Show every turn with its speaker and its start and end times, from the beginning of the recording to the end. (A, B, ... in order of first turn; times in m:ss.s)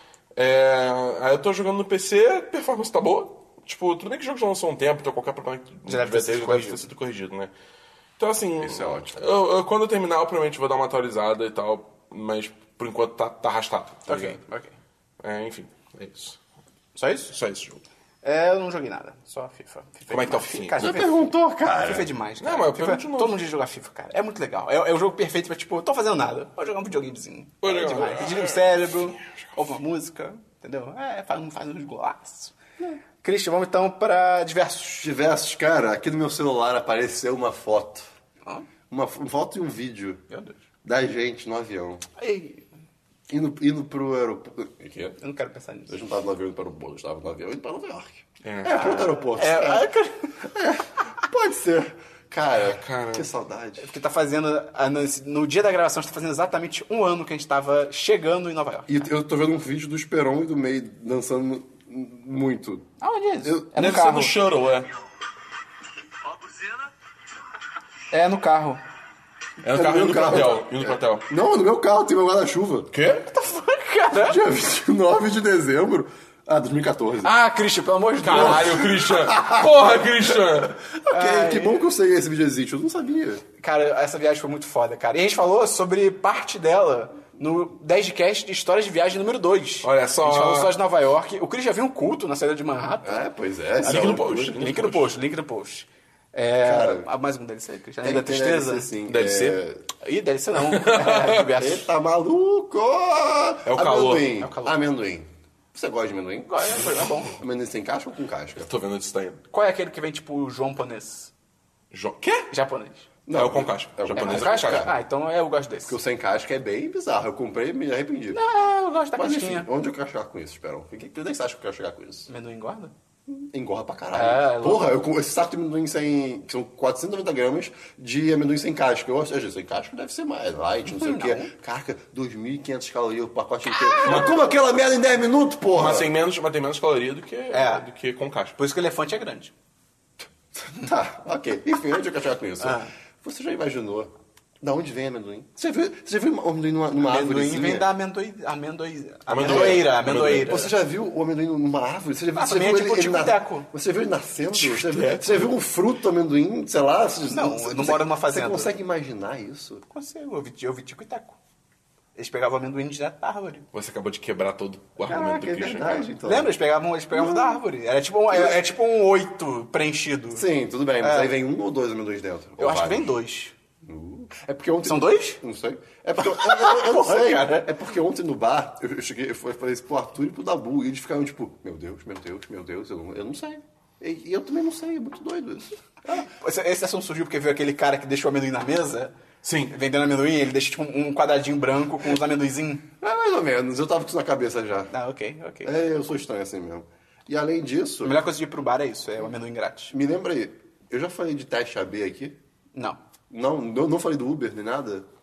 0:00.4-0:07.5 A
0:05.9-0:06.9 B
0:08.2-0:14.4 A
0:08.6-0:09.3 C
0:14.1-0:14.7 B
0:15.2-0:16.4 A
0:17.0-0:17.3 B
0:17.3-0:17.8 A
0:18.2-0:35.1 B
0:20.1-0:21.2 A
0:20.8-0:22.1 C
0:22.4-0:23.4 A
0:27.6-0:29.6 A
0:35.0-0:38.1 C
0:38.9-0:40.2 C
0:40.3-0:40.6 B
0:40.8-0:42.0 C
0:42.2-0:42.6 B
0:43.3-0:45.2 C
0:45.2-0:46.0 B
0:45.9-0:53.9 C
0:48.4-0:49.0 A
0:48.7-0:50.4 B
0:52.6-0:53.3 A
0:53.8-0:59.1 B
0:58.9-1:02.9 C
1:03.0-1:04.4 B
1:03.8-1:04.9 A
1:08.1-1:08.8 B
1:09.6-1:11.3 A
1:09.7-1:12.9 C
1:12.9-1:13.3 A
1:13.3-1:14.4 B
1:14.1-1:17.3 C
1:17.2-1:18.8 B
1:18.2-1:20.8 A
1:18.3-1:19.9 C
1:21.1-1:23.4 C
1:21.1-1:21.9 B
1:23.6-1:33.3 B
1:29.8-1:30.7 A
1:33.0-1:34.7 C
1:33.8-1:38.9 B
1:33.8-1:35.1 A
1:36.6-1:37.1 C
1:38.0-1:39.8 C
1:39.1-1:39.6 A
1:40.0-1:41.9 B
1:40.6-1:41.5 A
1:41.3-1:48.7 C
1:43.7-1:44.3 A
1:44.4-1:44.8 B
1:46.5-1:47.4 B
1:48.6-1:49.4 A
1:49.5-1:51.3 B
1:51.9-1:52.5 A
1:52.5-1:53.1 B
1:53.3-1:54.9 C
1:53.3-1:54.9 A
1:54.1-1:56.0 B
1:55.9-1:58.4 C
1:58.3-1:59.7 B
1:59.2-2:02.3 C
2:02.3-2:02.9 B
2:03.3-2:16.1 C
2:04.1-2:05.0 B
2:10.9-2:11.5 B
2:13.8-2:14.2 B
2:14.0-2:14.4 A
2:15.7-2:18.6 A
2:17.5-2:17.9 B
2:18.6-2:19.5 B
2:20.6-2:27.9 C
2:22.6-2:22.9 B
2:27.0-2:30.7 B
2:29.3-2:30.6 A
2:29.4-2:39.8 C
2:32.4-2:33.7 B
2:34.5-2:35.5 A
2:37.3-2:38.8 B
2:39.9-2:41.4 B
2:42.2-2:43.7 B
2:43.7-2:46.1 A
2:45.1-2:46.5 C
2:46.2-2:50.4 B
2:47.1-2:47.6 C
2:48.3-2:48.6 C
2:50.4-2:53.2 C
2:51.0-2:51.3 B
2:52.6-2:53.6 B
2:53.8-3:06.3 C
2:54.8-2:55.4 B
2:56.2-2:57.7 B
3:06.1-3:09.1 B
3:09.4-3:09.7 A
3:09.7-3:12.9 B
3:13.0-3:14.9 C
3:14.9-3:15.7 B
3:15.6-3:18.2 C
3:18.0-3:19.9 B
3:19.9-3:22.4 C
3:23.3-3:25.1 C